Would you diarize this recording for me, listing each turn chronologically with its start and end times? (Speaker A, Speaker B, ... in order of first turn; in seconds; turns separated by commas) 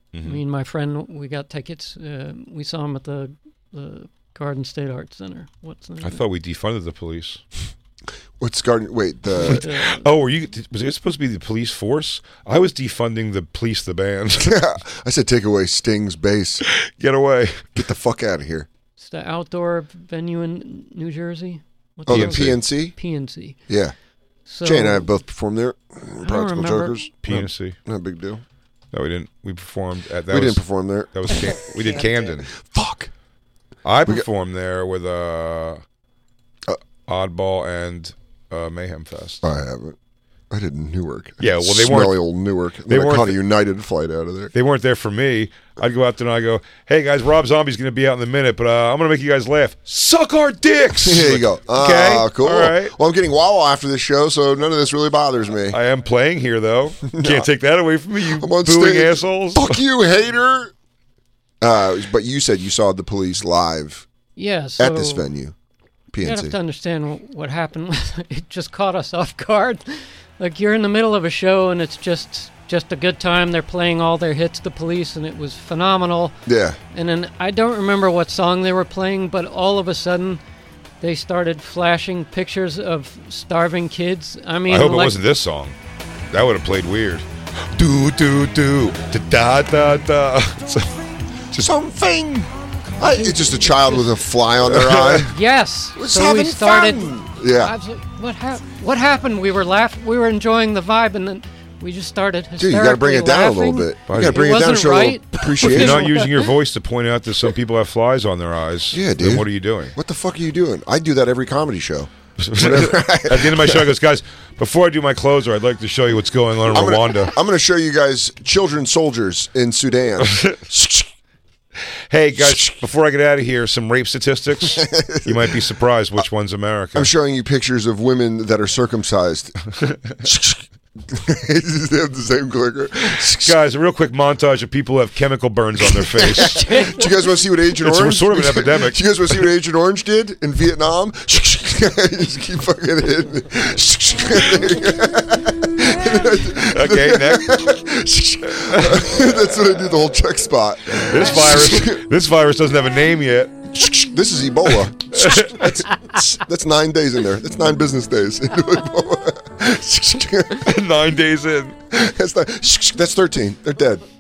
Speaker A: 0.1-0.4, Speaker B: 0.2-6.2, Speaker A: 6.0-7.4, Speaker C: 8.4-9.6, Speaker B: 9.4-10.1, Speaker A: 9.4-14.6, Speaker C: 14.4-16.6, Speaker A: 16.7-17.7, Speaker C: 17.8-18.7, Speaker B: 19.0-23.6, Speaker C: 22.1-23.0, Speaker A: 22.1-22.6, Speaker C: 23.7-23.9, Speaker B: 24.5-25.1, Speaker C: 24.6-28.4, Speaker B: 26.2-27.1, Speaker A: 27.2-27.8, Speaker A: 28.9-32.5, Speaker C: 30.3-31.7, Speaker C: 32.5-33.1, Speaker A: 33.9-35.8, Speaker A: 37.1-39.5, Speaker C: 39.4-40.0, Speaker C: 40.5-44.5, Speaker A: 41.4-42.2, Speaker A: 42.9-43.4, Speaker A: 44.5-53.0, Speaker C: 51.0-55.8, Speaker A: 55.7-59.8, Speaker C: 57.1-57.5, Speaker C: 58.2-60.7, Speaker C: 61.6-64.1, Speaker B: 64.4-65.3, Speaker C: 64.8-65.5, Speaker C: 66.1-66.6, Speaker B: 66.2-76.4, Speaker C: 76.5-76.8, Speaker B: 76.9-80.4, Speaker B: 81.0-85.2, Speaker A: 84.7-85.8, Speaker A: 86.3-91.1, Speaker C: 91.5-95.3, Speaker B: 93.0-94.3, Speaker A: 94.6-95.3, Speaker B: 95.2-106.5, Speaker C: 96.0-97.8, Speaker C: 102.6-106.2, Speaker A: 104.1-104.6, Speaker A: 105.6-110.0, Speaker C: 108.9-113.9, Speaker A: 112.4-117.3, Speaker C: 116.7-121.1, Speaker A: 120.2-120.6, Speaker A: 122.1-127.1, Speaker C: 122.4-122.8, Speaker C: 124.6-125.6, Speaker C: 126.9-129.6, Speaker A: 129.8-130.2, Speaker C: 130.2-133.6, Speaker A: 133.3-136.8, Speaker C: 135.8-152.1, Speaker A: 137.8-139.1, Speaker A: 146.7-147.7, Speaker A: 148.5-149.2, Speaker A: 151.0-153.8, Speaker C: 153.7-160.8, Speaker A: 155.0-155.9, Speaker A: 160.6-161.8, Speaker C: 161.9-164.1